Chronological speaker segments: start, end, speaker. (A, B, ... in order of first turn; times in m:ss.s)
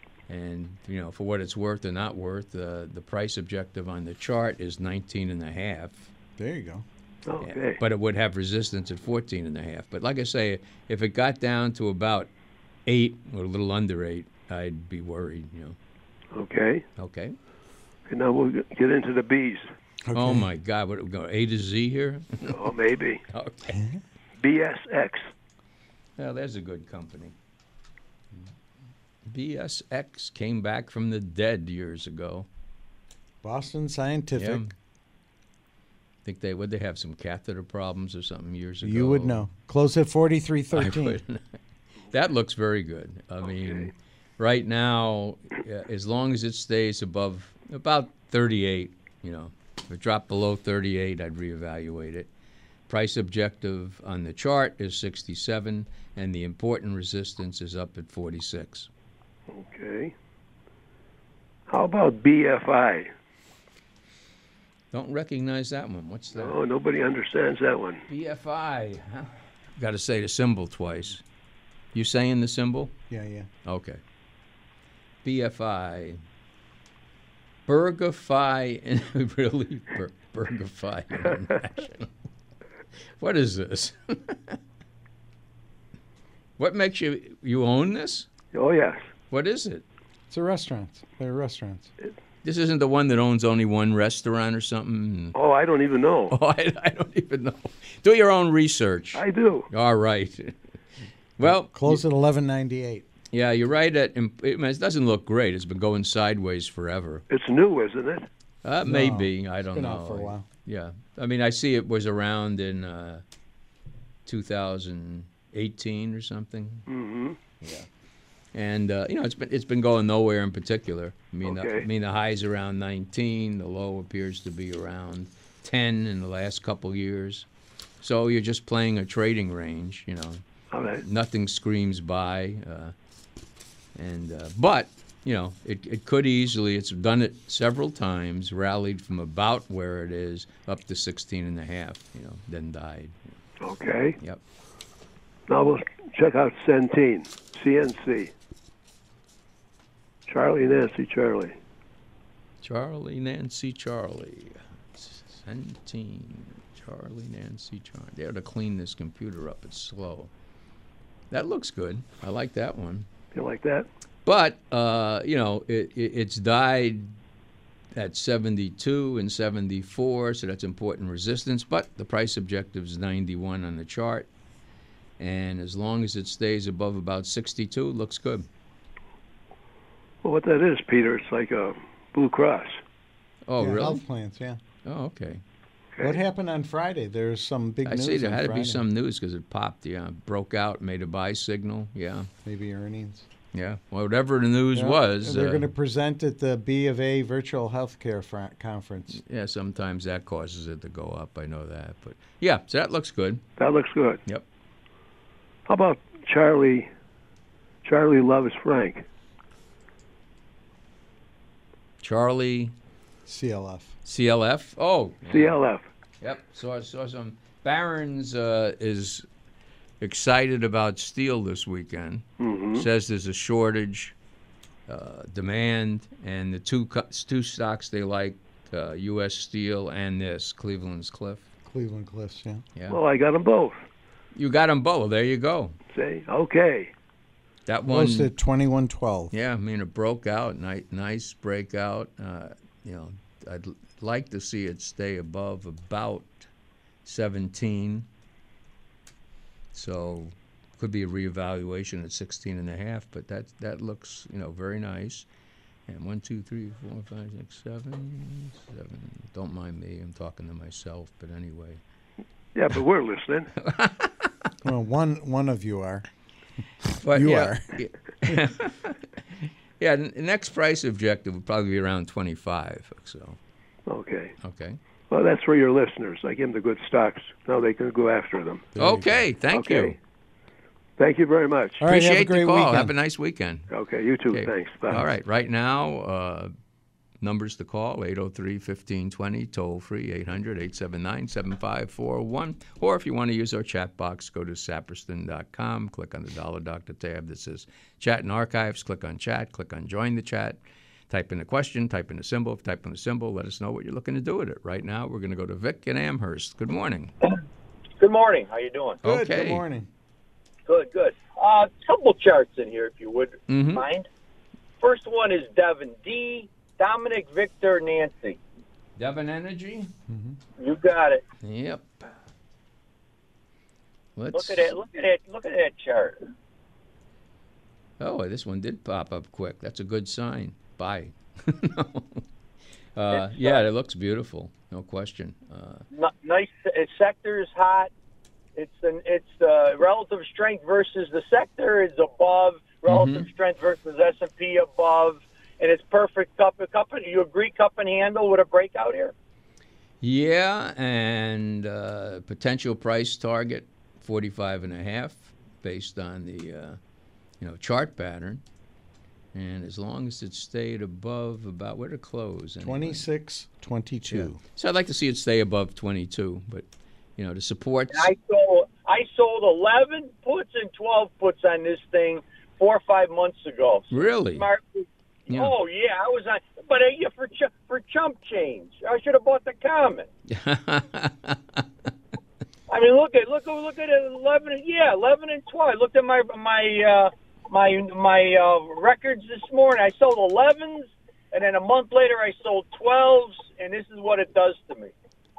0:00.3-0:06.1 A
0:06.4-0:06.8 B
0:07.3-0:07.8 C
0:07.4-0:12.3 A
0:12.9-0:15.8 A
0:16.3-0:16.8 C
0:17.0-0:17.4 A
0:18.1-0:19.7 C
0:20.0-0:20.5 B
0:20.1-0:22.6 A
0:22.4-0:23.2 C
0:23.3-0:23.8 A
0:23.7-0:24.0 B
0:24.4-0:25.3 C
0:26.2-0:27.3 A
0:29.3-0:32.5 A
0:33.4-0:34.7 B
0:34.4-0:34.7 A
0:36.2-0:39.5 A
0:38.8-0:41.2 B
0:40.7-0:41.4 A
0:42.1-0:52.3 A
0:43.5-0:43.9 C
0:52.9-0:58.9 A
0:59.5-1:00.1 C
1:01.7-1:03.1 C
1:04.9-1:06.6 A
1:06.3-1:08.0 C
1:08.1-1:11.2 A
1:11.9-1:12.9 A
1:13.1-1:13.5 B
1:13.6-1:14.0 A
1:15.2-1:16.2 A
1:17.7-1:22.1 A
1:23.2-1:24.6 A
1:26.6-1:28.3 A
1:28.5-1:29.0 C
1:29.3-1:29.8 A
1:30.3-1:31.9 B
1:32.4-1:35.4 A
1:35.4-1:36.4 C
1:36.3-1:40.6 A
1:39.2-1:39.7 C
1:41.4-1:42.0 A
1:41.4-1:43.0 B
1:43.3-1:47.2 A
1:47.3-1:48.3 C
1:48.6-1:53.2 A
1:48.8-1:50.4 B
1:54.3-1:56.9 A
1:56.9-1:57.4 C
1:57.6-1:57.9 A
1:58.5-2:07.5 A
2:01.4-2:01.9 C
2:08.0-2:10.4 A
2:10.7-2:11.0 C
2:11.0-2:12.9 A
2:14.0-2:23.3 A
2:23.6-2:24.2 C
2:25.5-2:28.3 C
2:30.3-2:31.6 C
2:32.6-2:40.3 A
2:41.3-2:43.1 A
2:43.3-2:43.9 C
2:44.3-2:47.1 A
2:48.0-2:54.3 A
2:55.2-2:58.5 A
3:00.2-3:02.8 C
3:03.5-3:04.0 A
3:03.6-3:04.6 B
3:04.8-3:05.4 A
3:06.0-3:08.8 B
3:07.9-3:12.3 A
3:12.4-3:13.3 B
3:13.5-3:15.7 A
3:14.7-3:19.2 B
3:19.1-3:23.4 A
3:23.6-3:24.2 C
3:25.7-3:26.9 C
3:27.8-3:29.0 C
3:32.0-3:32.7 A
3:33.3-3:33.9 B
3:34.0-3:35.6 A
3:35.3-3:35.8 C
3:36.2-3:39.3 A
3:40.0-3:44.1 A
3:42.4-3:42.9 C
3:44.9-3:51.4 A
3:51.7-3:52.6 B
3:52.9-3:53.8 C
3:54.4-3:55.8 A
3:55.9-3:56.9 C
3:57.7-3:58.3 A
3:57.9-3:59.3 B
3:59.3-4:06.3 A
4:07.0-4:08.1 A
4:09.7-4:15.3 A
4:15.9-4:21.8 A
4:22.5-4:23.5 C
4:23.6-4:24.3 A
4:24.6-4:26.0 B
4:26.9-4:33.4 A
4:27.1-4:27.7 B
4:33.9-4:34.4 C
4:34.4-4:34.8 A
4:35.1-4:38.7 C
4:38.8-4:39.2 B
4:38.8-4:40.0 A
4:39.5-4:40.0 C
4:41.0-4:41.8 C
4:41.8-4:42.9 B
4:41.8-4:43.7 A
4:43.7-4:45.1 C
4:44.3-4:46.5 A
4:47.2-5:00.6 A
5:01.1-5:07.1 A
5:08.0-5:09.0 D
5:09.0-5:09.6 A
5:09.0-5:09.9 B
5:10.7-5:14.1 D
5:13.5-5:13.9 A
5:14.8-5:18.4 D
5:19.0-5:19.9 A
5:20.1-5:20.4 B
5:20.6-5:21.2 D
5:21.4-5:22.1 A
5:24.2-5:24.7 A
5:24.3-5:26.3 D
5:28.0-5:32.2 A
5:33.0-5:35.8 A
5:33.1-5:33.6 D
5:35.9-5:37.9 D
5:38.6-5:49.1 D
5:42.9-5:43.3 A
5:50.0-5:56.8 A
5:57.4-5:58.4 A
5:59.3-6:03.0 A
6:02.6-6:04.4 B
6:04.1-6:06.6 A
6:07.2-6:08.1 A
6:07.9-6:20.1 D
6:13.9-6:14.5 A
6:20.3-6:21.6 A
6:22.7-6:34.9 D